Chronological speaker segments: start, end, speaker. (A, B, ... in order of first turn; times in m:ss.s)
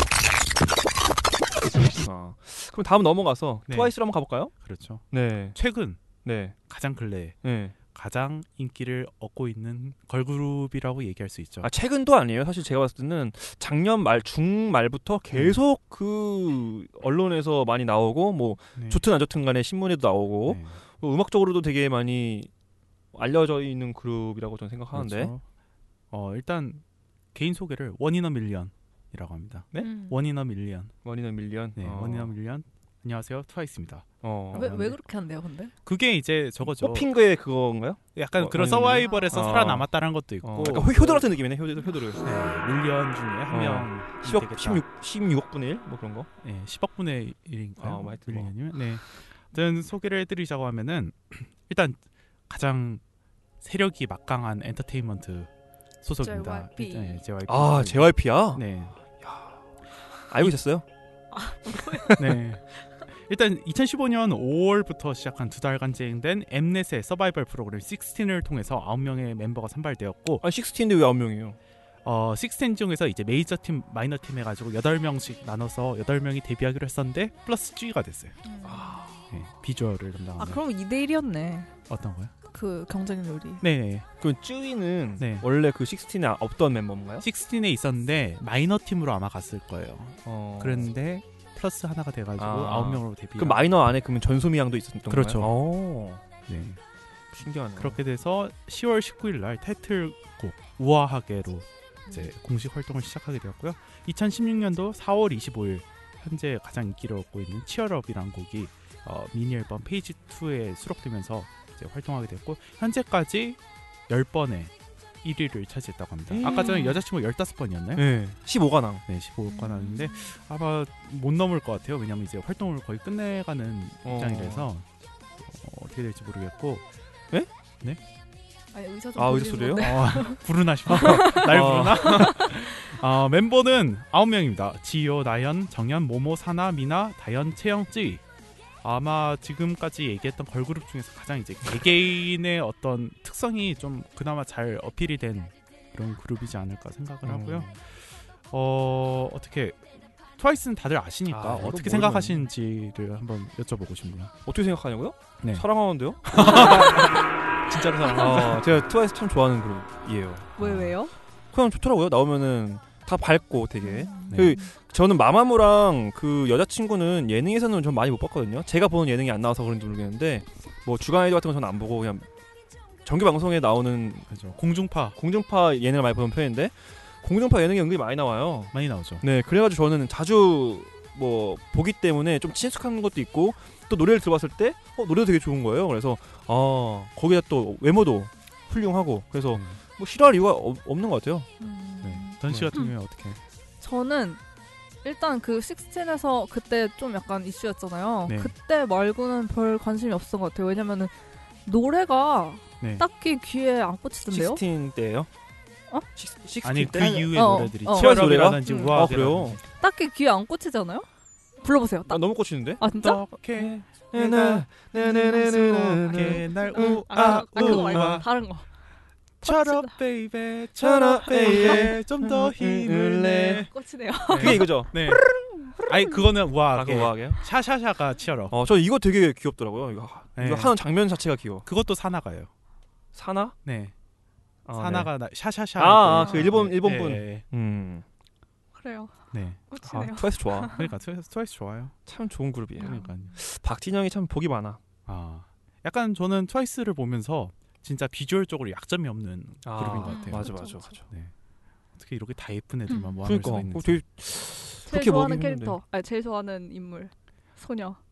0:01.6-0:04.5 A
0:03.7-0:04.0 B
0:04.5-0:05.0 B
0:05.1-0:05.6 A
0:05.5-0:06.0 B
0:06.2-0:06.5 A
0:06.7-0:07.4 B
0:07.4-0:07.7 A
0:07.9-0:11.7 B
0:11.6-0:22.5 A
0:15.3-0:15.6 B
0:18.8-0:19.0 B
0:20.4-0:20.8 B
0:23.1-0:25.3 A
0:24.9-0:25.4 B
0:26.1-0:30.9 B
0:29.8-0:30.2 C
0:31.0-0:32.3 A
0:31.8-0:35.0 B
0:34.2-0:34.7 A
0:34.5-0:35.7 C
0:35.8-0:37.1 B
0:36.6-0:39.9 A
0:38.1-0:41.3 B
0:38.8-0:39.4 C
0:40.4-0:42.2 A
0:42.2-0:44.8 B
0:43.5-0:46.3 A
0:46.4-0:53.0 B
0:47.8-0:48.5 A
0:53.6-0:55.5 B
0:56.0-0:59.0 B
0:56.2-0:57.2 C
0:57.4-0:58.6 A
0:59.2-0:59.6 A
1:00.3-1:00.8 A
1:01.3-1:02.1 C
1:01.8-1:02.4 A
1:02.2-1:10.4 B
1:10.4-1:11.6 A
1:12.0-1:18.4 B
1:18.4-1:19.1 C
1:18.6-1:19.2 A
1:19.3-1:20.6 B
1:20.4-1:21.7 C
1:21.9-1:22.3 B
1:22.5-1:23.6 C
1:23.6-1:24.1 B
1:24.2-1:27.2 A
1:25.2-1:25.4 B
1:27.2-1:33.6 B
1:30.2-1:30.9 A
1:32.4-1:36.2 A
1:35.1-1:35.5 B
1:36.5-1:36.8 B
1:37.3-1:38.0 A
1:37.8-1:54.7 B
1:55.2-1:58.0 B
1:56.3-1:57.0 A
1:56.4-1:57.0 C
1:57.9-1:59.0 A
1:59.1-2:04.8 B
1:59.5-2:00.3 C
2:04.0-2:04.7 A
2:05.4-2:06.8 B
2:08.7-2:12.9 C
2:09.2-2:10.0 A
2:09.8-2:18.2 B
2:10.9-2:12.5 A
2:18.8-2:29.8 B
2:27.2-2:27.8 A
2:30.4-2:34.3 B
2:31.3-2:32.5 A
2:34.4-2:37.2 A
2:35.4-2:35.7 B
2:36.2-2:38.9 B
2:36.5-2:37.3 C
2:38.1-2:40.6 A
2:40.6-2:41.0 B
2:40.6-2:41.1 C
2:41.5-2:52.3 A
2:43.8-2:44.7 C
2:44.3-2:44.6 B
2:53.0-2:54.3 A
2:54.3-2:55.2 B
2:55.2-3:11.5 A
2:58.7-2:59.2 B
3:09.5-3:09.8 B
3:11.6-3:12.9 C
3:12.0-3:13.4 B
3:13.8-3:14.4 C
3:15.0-3:21.1 C
3:18.2-3:18.5 B
3:21.6-3:24.6 C
3:22.8-3:23.0 B
3:24.2-3:25.3 A
3:26.2-3:29.6 A
3:26.6-3:29.6 B
3:27.3-3:28.9 C
3:29.8-3:31.1 C
3:31.6-3:32.2 C
3:32.1-3:32.8 A
3:32.8-3:33.2 C
3:32.9-3:38.2 B
3:33.6-3:38.2 A
3:36.0-3:38.7 C
3:39.4-3:43.7 B
3:39.4-3:39.9 C
3:40.8-3:43.6 A
3:41.5-3:41.9 C
3:43.7-3:44.7 C
3:44.3-3:45.2 B
3:44.3-3:45.4 A
3:45.8-3:48.6 B
3:46.7-3:47.4 A
3:48.5-3:51.6 A
3:50.4-3:50.7 B
3:51.6-3:52.5 B
3:53.1-3:53.5 A
3:53.6-3:53.9 B
3:54.6-3:55.1 A
3:54.7-3:57.4 B
3:55.8-3:58.0 A
3:56.2-3:56.5 C
3:58.7-3:59.1 C
3:59.3-3:59.6 B
3:59.7-4:00.9 C
3:59.8-4:00.8 A
4:00.7-4:01.9 B
4:02.0-4:04.8 A
4:02.8-4:03.2 C
4:02.8-4:03.4 B
4:05.0-4:11.3 B
4:09.6-4:11.0 A
4:10.0-4:10.9 C
4:12.0-4:14.0 B
4:12.9-4:13.2 C
4:13.2-4:15.8 A
4:14.8-4:18.0 C